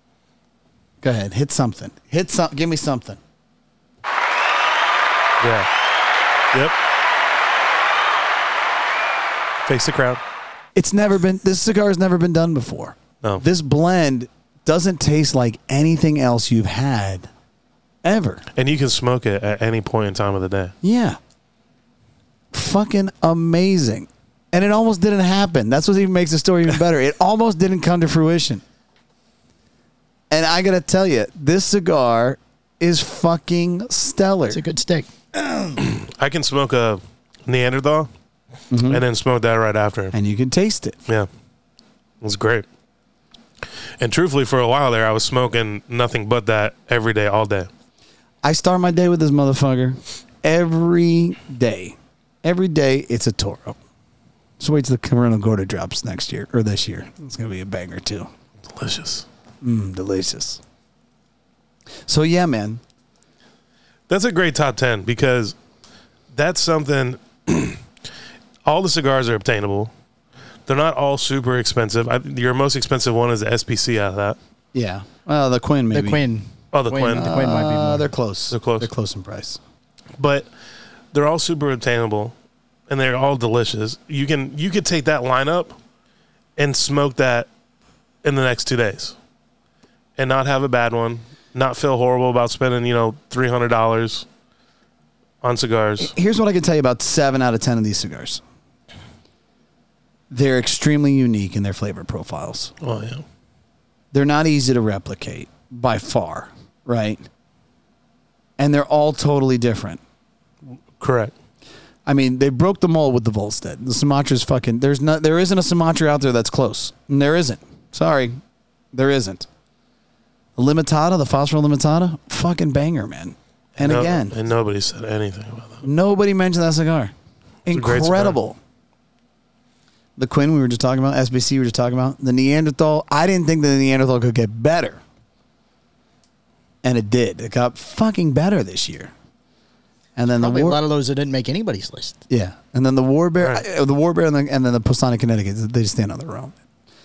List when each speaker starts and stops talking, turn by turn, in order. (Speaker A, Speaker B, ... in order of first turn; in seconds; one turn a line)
Speaker A: 1.0-3.2
Speaker B: 5.4-5.7
Speaker B: 9.6-10.2
Speaker A: 10.8-17.3
Speaker A: 18.0-18.4
Speaker B: 18.6-20.7
Speaker A: 20.8-21.2
Speaker A: 22.5-28.6
Speaker A: 30.3-34.6
Speaker C: 34.5-35.8
Speaker B: 35.8-38.1
Speaker A: 38.7-39.0
Speaker B: 38.9-40.1
Speaker A: 40.1-41.0
Speaker B: 42.2-42.6
Speaker B: 44.0-47.7
Speaker A: 48.4-53.8
Speaker A: 54.6-58.3
Speaker B: 58.7-59.2
Speaker A: 59.6-60.6
Speaker A: 62.1-62.8
Speaker B: 64.1-65.5
Speaker B: 66.3-67.8
Speaker B: 68.6-69.9
Speaker B: 70.7-74.4
Speaker A: 74.7-76.2
Speaker C: 75.9-78.1
Speaker B: 76.7-77.3
Speaker A: 77.0-79.6
Speaker B: 78.5-78.9
Speaker B: 80.2-80.5
Speaker B: 81.1-82.3
Speaker B: 82.9-85.8
Speaker B: 86.6-87.5
Speaker B: 88.2-89.1
Speaker B: 90.2-94.2
Speaker B: 95.4-96.1
Speaker A: 96.0-98.4
Speaker A: 100.3-102.7
Speaker B: 102.8-103.2
Speaker A: 104.1-107.2
Speaker A: 108.6-110.0
Speaker B: 111.0-111.3
Speaker A: 112.0-118.4
Speaker A: 118.9-119.5
Speaker A: 120.5-124.3
Speaker B: 123.8-125.8
Speaker A: 125.8-127.1
Speaker A: 127.7-128.6
Speaker B: 127.7-128.4
Speaker A: 130.2-135.0
Speaker A: 136.8-139.1
Speaker A: 140.2-140.8
Speaker C: 140.4-142.2
Speaker A: 142.3-146.5